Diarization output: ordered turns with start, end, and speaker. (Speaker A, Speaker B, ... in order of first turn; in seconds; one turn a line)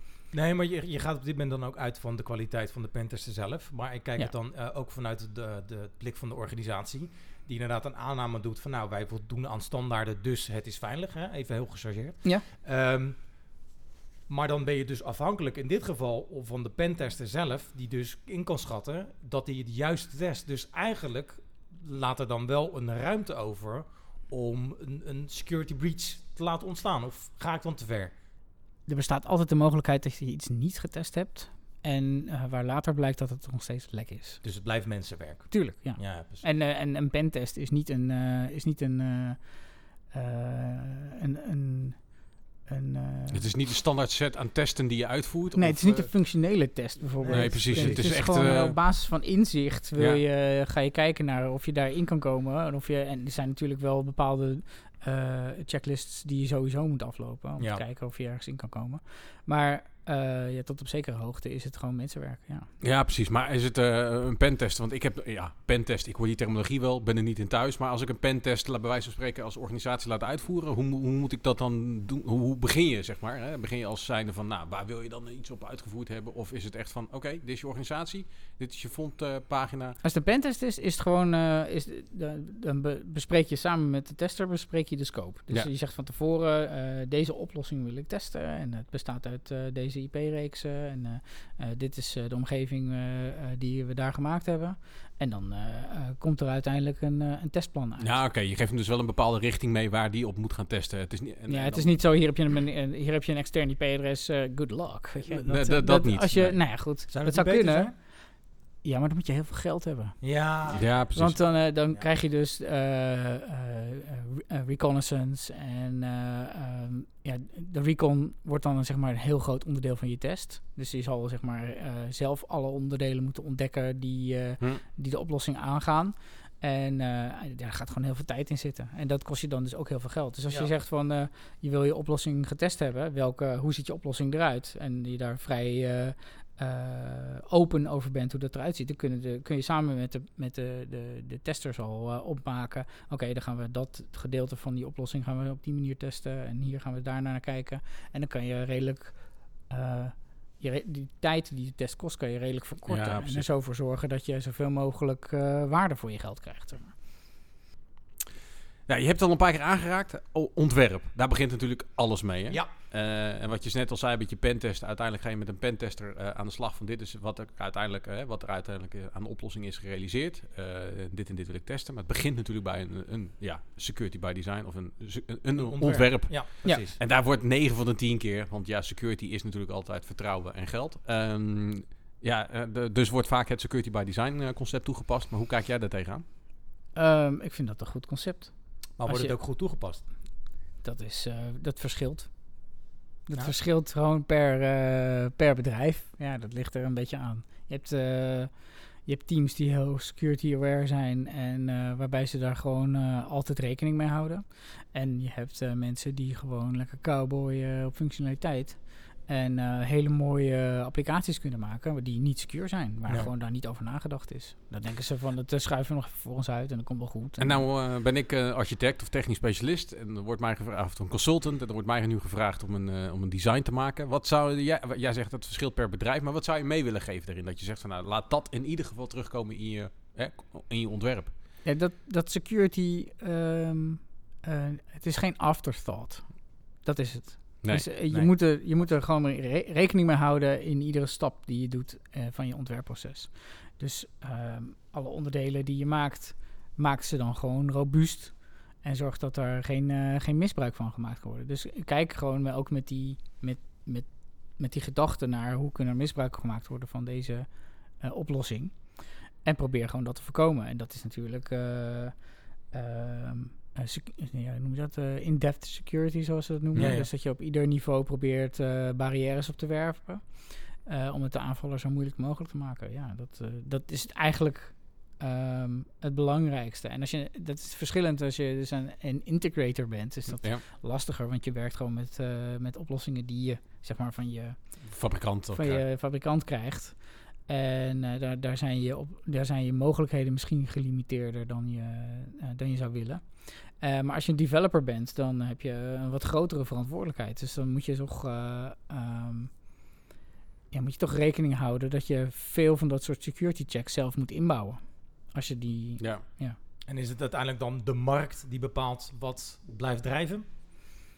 Speaker A: 0.3-13.4
Speaker A: 14.3-28.1
Speaker B: 28.9-34.4
Speaker A: 34.4-36.5
Speaker B: 35.5-43.5
Speaker C: 43.3-46.2
Speaker B: 45.5-62.7
Speaker A: 47.2-48.1
Speaker C: 47.3-48.9
Speaker C: 50.0-50.2
Speaker A: 57.6-57.8
Speaker C: 62.8-80.0
Speaker B: 80.0-98.3
Speaker C: 98.0-102.1
Speaker B: 101.5-110.4
Speaker C: 105.3-106.8
Speaker A: 107.1-108.0
Speaker A: 110.2-111.0
Speaker C: 110.7-111.4
Speaker B: 111.1-156.9
Speaker C: 152.9-153.5
Speaker C: 158.9-186.2
Speaker A: 175.6-177.0
Speaker B: 186.9-189.4
Speaker A: 189.0-190.1
Speaker B: 190.8-217.7
Speaker C: 217.4-231.3
Speaker B: 231.6-299.9
Speaker C: 237.6-237.9
Speaker A: 238.1-238.4
Speaker A: 266.8-267.1
Speaker C: 284.9-285.8
Speaker B: 300.7-306.6
Speaker A: 306.9-310.4